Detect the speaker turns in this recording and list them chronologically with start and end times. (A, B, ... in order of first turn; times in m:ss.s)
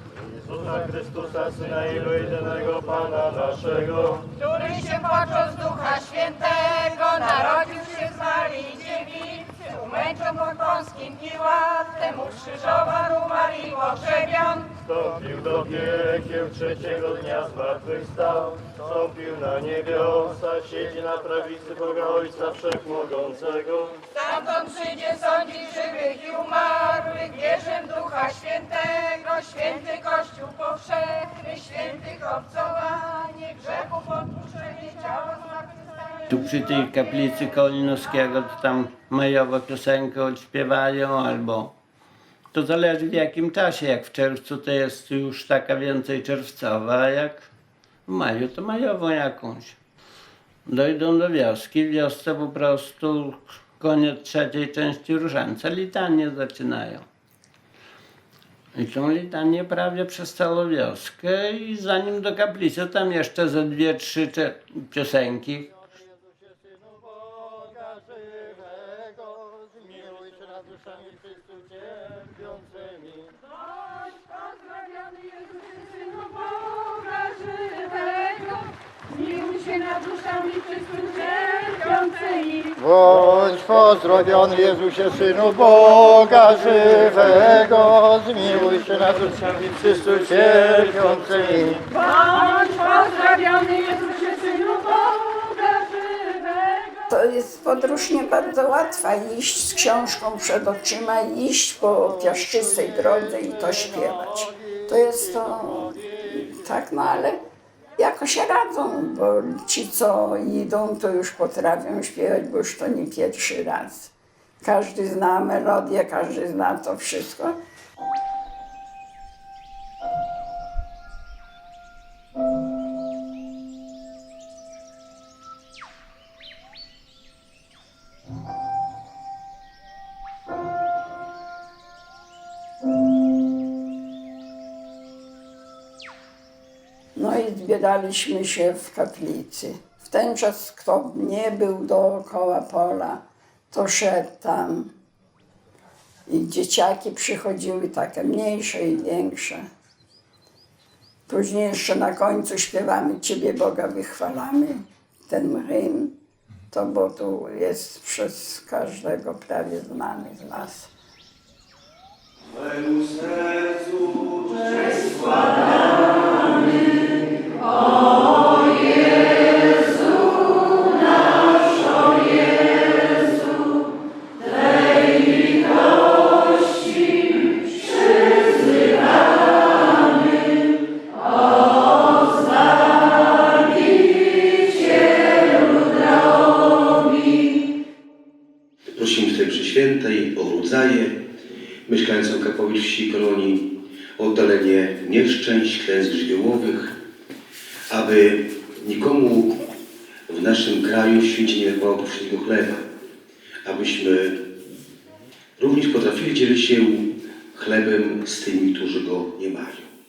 0:00.5-0:04.3 A
0:04.4-0:14.8 B
0:14.9-0:24.0 A
0:24.2-0:35.9 B
0:36.3-0:41.7 C
0:42.5-0:47.5 C
0:48.1-0:49.8 C
0:50.6-0:57.0 C
0:58.7-1:05.7 C
1:16.7-1:18.5 B
1:19.1-1:22.6 B
1:22.7-1:31.9 D
1:32.0-1:35.3 B
1:37.1-1:47.4 E
1:48.0-1:57.6 E
2:17.2-2:24.9 E
2:26.3-2:29.6 E
2:31.3-2:36.2 E
2:36.7-2:40.9 E
3:09.0-3:11.1 F
3:11.9-3:13.6 F
3:14.2-3:16.9 F
3:17.9-3:19.5 F
3:20.3-3:22.8 F
3:23.6-3:24.3 F
3:25.6-3:29.9 F